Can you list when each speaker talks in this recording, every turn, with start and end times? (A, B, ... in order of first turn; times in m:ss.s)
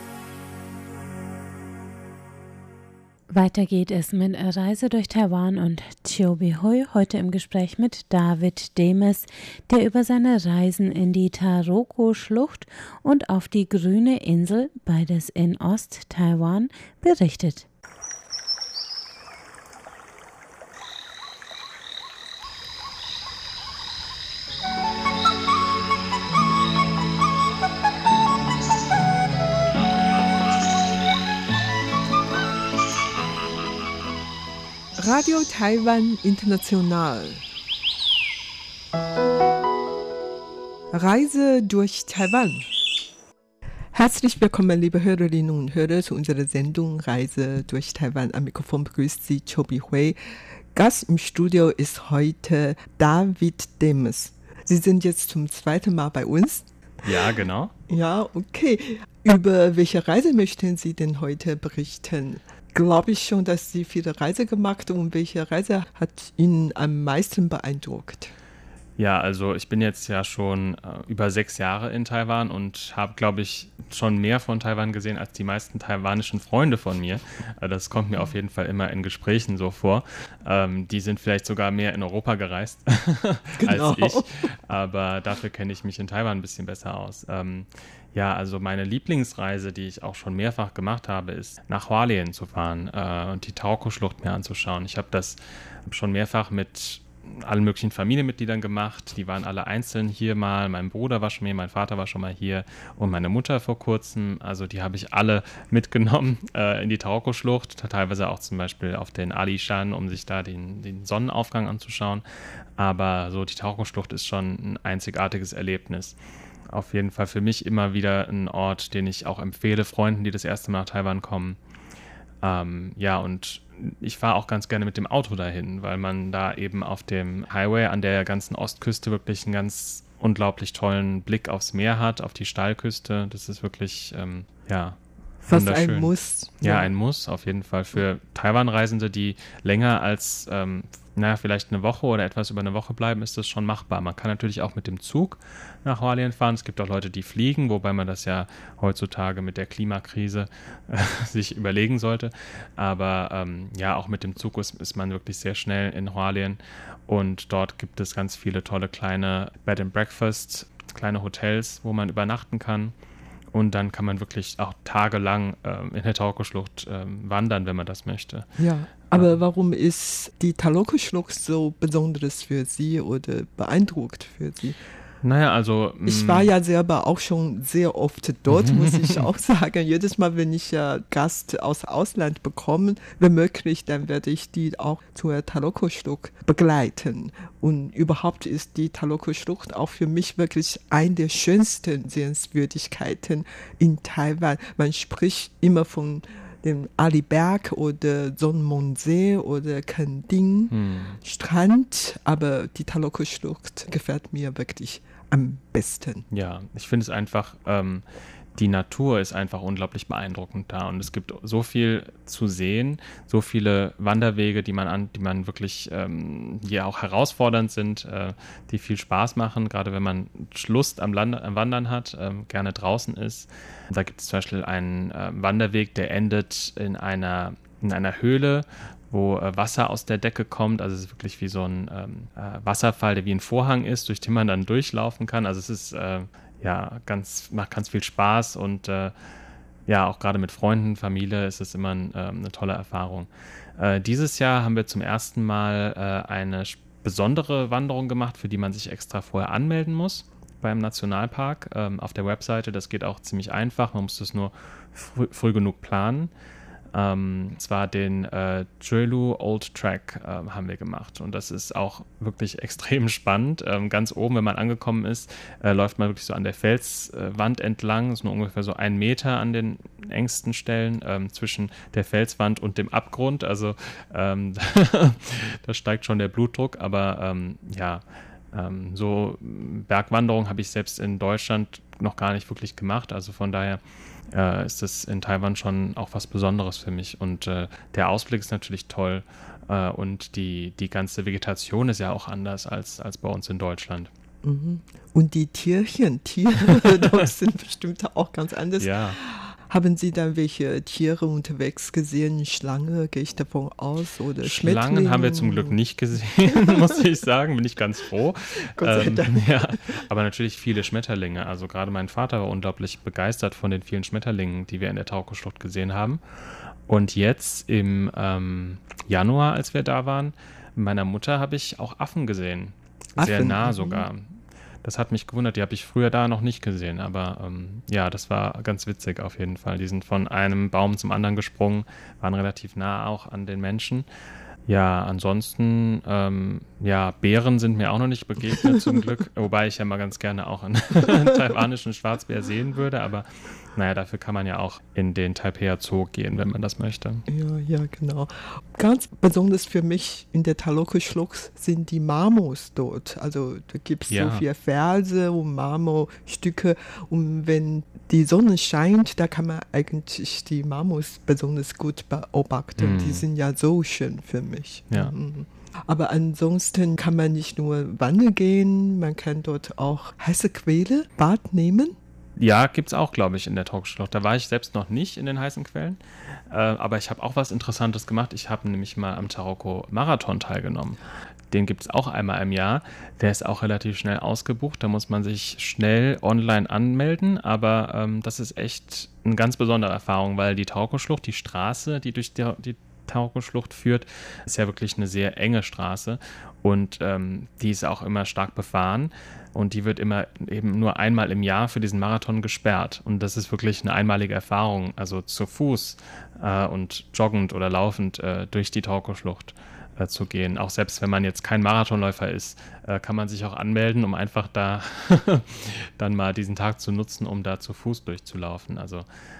0:03.3-0:17.7 A
0:35.0-0:37.4 B
0:40.9-0:42.7 B
0:43.9-0:57.3 B
0:57.0-0:57.7 C
0:57.9-1:08.3 B
1:09.0-1:52.2 C
1:23.6-1:24.3 B
1:52.8-1:56.2 C
1:56.7-2:01.6 C
2:02.4-2:42.9 C
2:15.5-2:16.9 B
2:43.5-2:48.5 C
2:48.6-2:54.8 B
2:55.2-2:56.5 C
2:56.1-3:26.2 B
2:58.5-2:59.3 C
3:20.7-3:21.2 C
3:26.3-3:28.0 C
3:28.6-3:59.1 C
3:59.9-4:16.3 C
4:16.9-4:43.8 C
4:44.3-4:54.1 C
4:54.4-5:05.8 B
4:56.7-4:57.2 C
4:58.8-4:59.2 C
5:04.4-5:16.2 C
5:08.8-5:09.7 B
5:16.9-5:34.1 C
5:23.2-5:24.1 B
5:34.7-5:47.3 C
5:38.6-5:38.9 B
5:47.3-6:12.0 B
5:54.1-5:54.4 C
6:02.8-6:03.2 C
6:12.4-6:16.0 C
6:16.5-6:21.0 C
6:21.5-6:59.1 C